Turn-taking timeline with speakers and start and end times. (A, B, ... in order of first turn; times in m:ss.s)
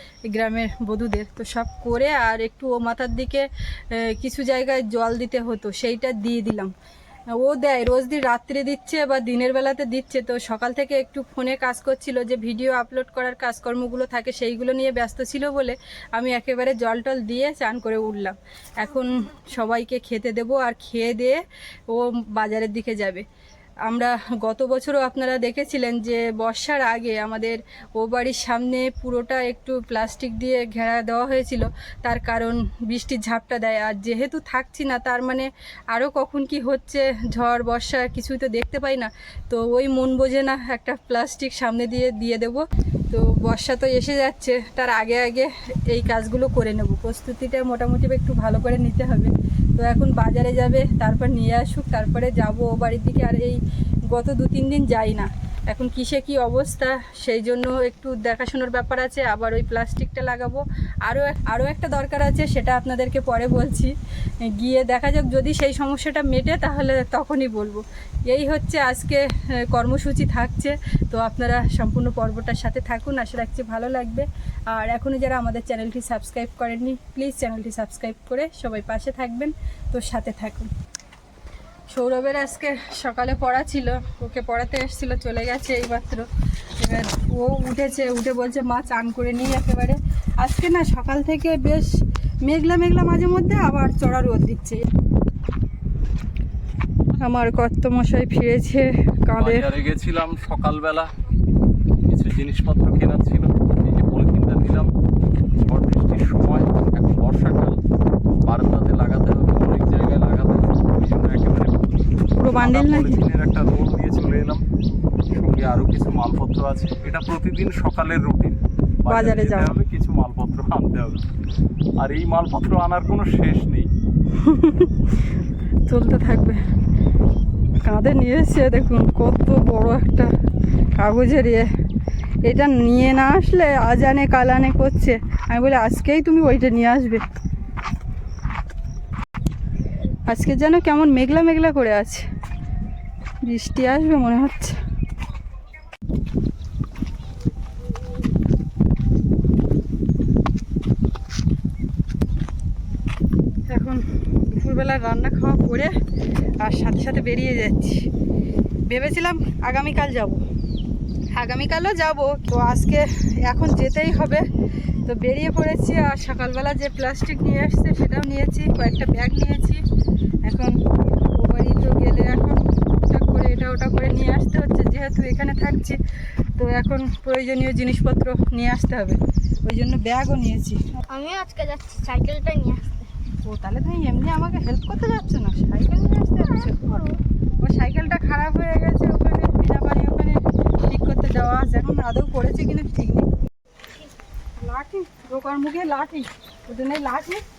0:00.3-0:06.7 A
0:07.4-0:23.2 A
0:23.9-1:03.9 A
1:04.5-1:20.7 A
1:21.9-1:26.3 A
1:26.8-1:31.9 A
1:32.4-1:34.8 A
1:37.2-1:39.7 A
1:39.4-1:41.1 B
1:42.1-1:44.9 B
1:45.5-1:47.8 B
1:48.4-1:54.6 B
1:52.4-1:53.3 A
1:55.3-2:01.2 B
1:59.1-1:59.7 A
2:02.0-2:03.9 B
2:04.4-2:05.0 A
2:05.9-2:06.6 A
2:07.8-2:10.3 A
2:11.0-2:11.7 A
2:12.4-2:17.2 A
2:20.3-2:22.3 A
2:23.4-2:24.8 A
2:33.7-2:35.9 A
2:36.6-2:38.1 A
2:38.9-2:40.4 A
2:41.3-2:44.5 A
2:45.1-2:49.8 A
2:50.5-2:56.0 A
2:56.6-3:00.8 A
3:01.1-3:03.1 C
3:03.4-3:06.9 A
3:06.6-3:07.2 C
3:07.6-3:13.3 A
3:14.6-3:17.4 A